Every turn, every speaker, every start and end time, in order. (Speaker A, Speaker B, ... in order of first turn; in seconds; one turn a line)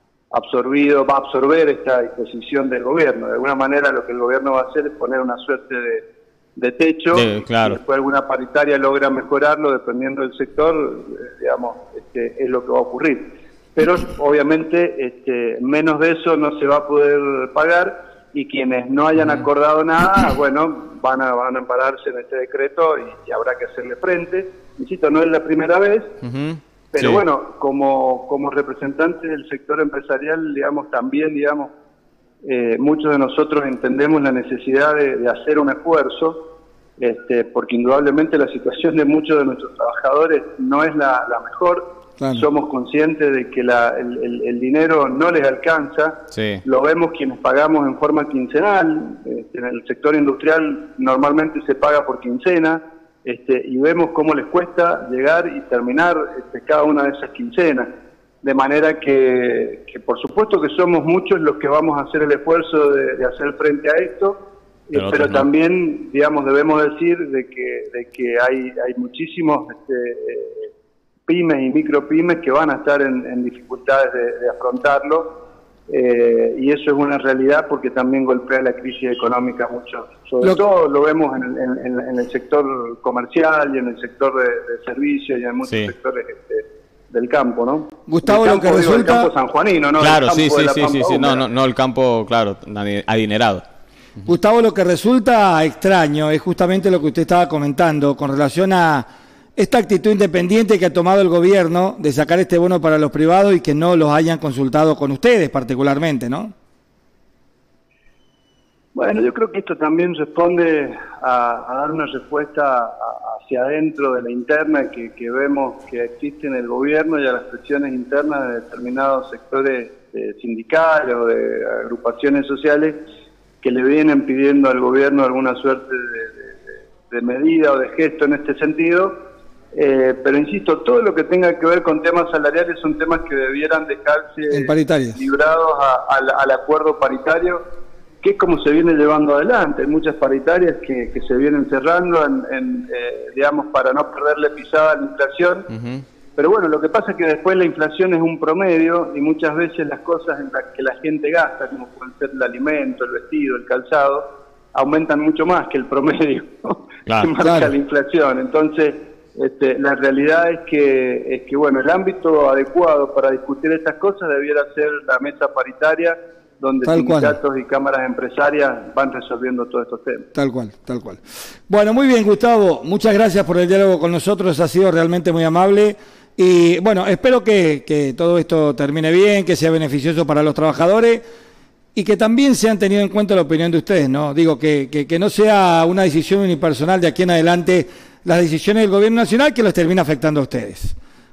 Speaker A: 0.3-6.0
Speaker A: 6.5-26.1
Speaker B: 7.1-7.8
Speaker B: 19.2-19.4
Speaker B: 26.2-27.2
Speaker A: 26.9-31.7
Speaker A: 32.4-36.4
Speaker A: 37.0-57.9
Speaker C: 42.2-42.4
Speaker B: 46.3-46.6
Speaker A: 58.4-64.4
Speaker A: 64.9-70.7
Speaker B: 64.9-65.5
Speaker A: 71.3-75.3
Speaker A: 75.9-91.5
Speaker B: 85.6-85.9
Speaker C: 88.1-89.3
Speaker B: 90.0-93.6
Speaker C: 94.2-106.5
Speaker A: 108.9-123.0
Speaker A: 123.6-129.1
Speaker A: 129.7-137.6
Speaker C: 134.5-135.2
Speaker A: 138.2-145.7
Speaker B: 145.7-146.0
Speaker A: 146.3-170.3
Speaker B: 157.1-157.3
Speaker C: 157.4-157.7
Speaker C: 166.8-167.4
Speaker C: 170.3-181.2
Speaker C: 181.9-191.0